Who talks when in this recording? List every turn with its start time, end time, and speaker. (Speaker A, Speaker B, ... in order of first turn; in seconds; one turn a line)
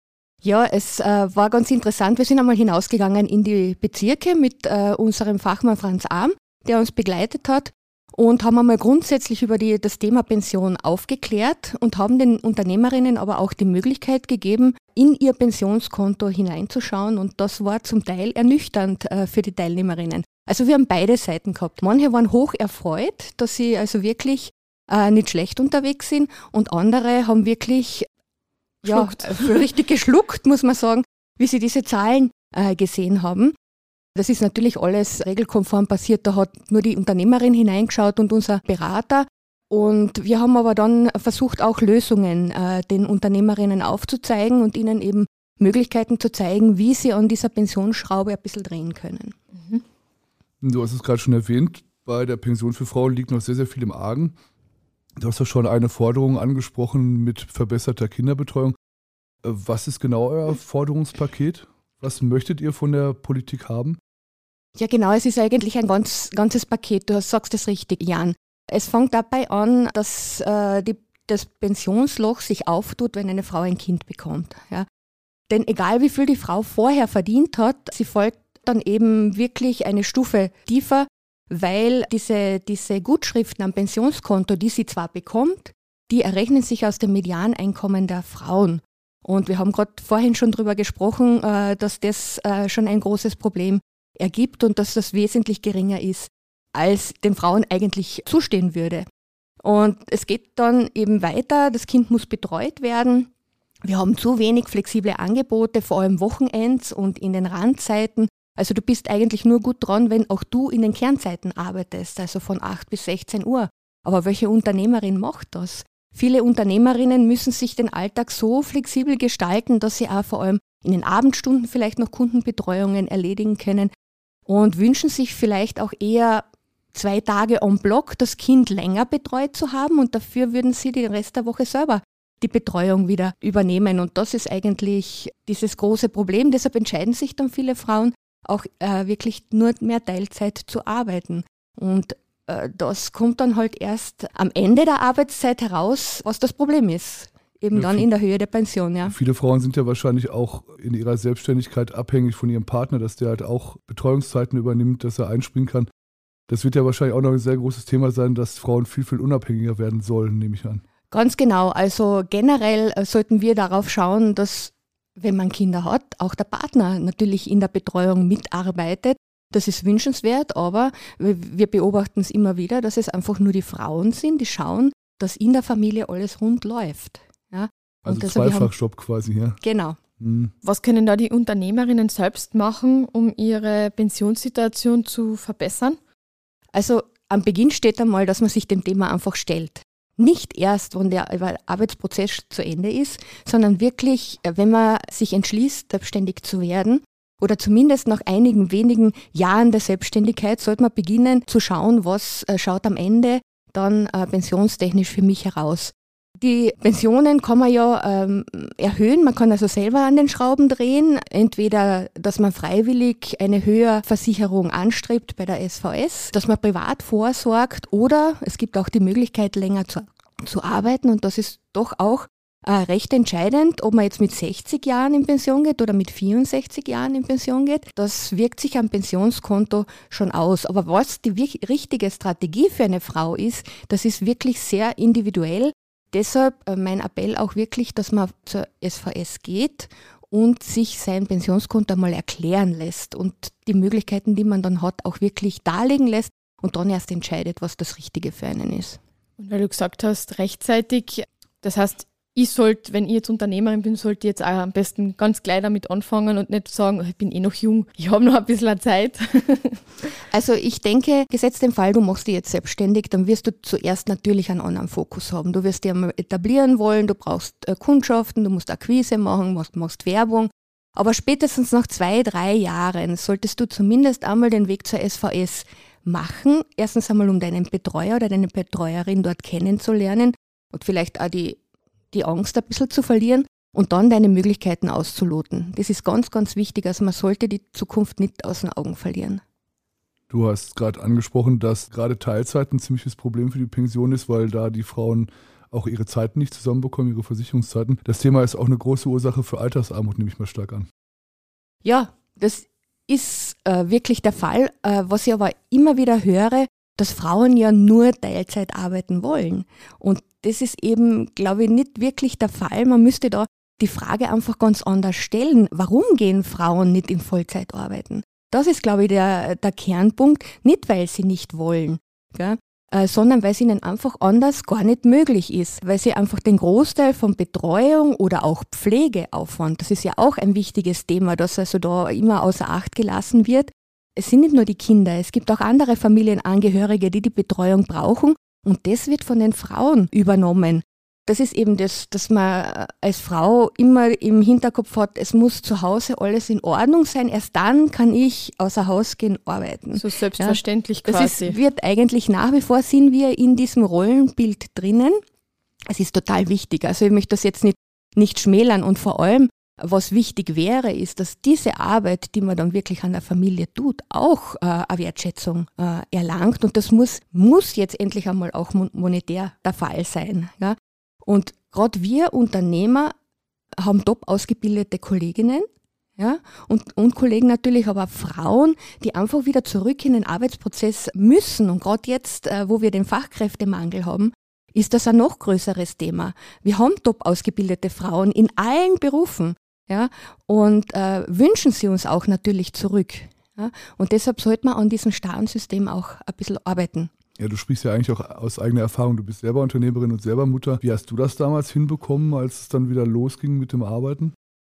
Speaker A: 0.4-28.1
Speaker B: 28.8-29.6
Speaker A: 28.8-33.5
Speaker A: 34.1-49.4
Speaker B: 49.5-49.8
Speaker C: 50.6-54.3
Speaker C: 55.2-58.7
Speaker C: 59.4-64.0
Speaker A: 64.8-74.9
Speaker A: 75.5-99.0
Speaker A: 99.6-103.3
Speaker A: 103.8-123.9
Speaker A: 124.5-149.1
Speaker C: 147.7-148.1
Speaker C: 149.0-155.9
Speaker C: 156.5-160.8
Speaker A: 161.1-178.7
Speaker C: 178.0-179.6
Speaker A: 179.6-180.0
Speaker C: 180.2-180.5
Speaker B: 180.6-186.0
Speaker A: 186.7-249.0
Speaker B: 249.4-259.8
Speaker A: 260.3-281.6
Speaker A: 282.1-289.4
Speaker C: 290.3-300.9
Speaker A: 301.8-355.2
Speaker B: 349.9-351.6
Speaker A: 355.9-373.1
Speaker A: 373.8-397.1
Speaker C: 397.4-404.3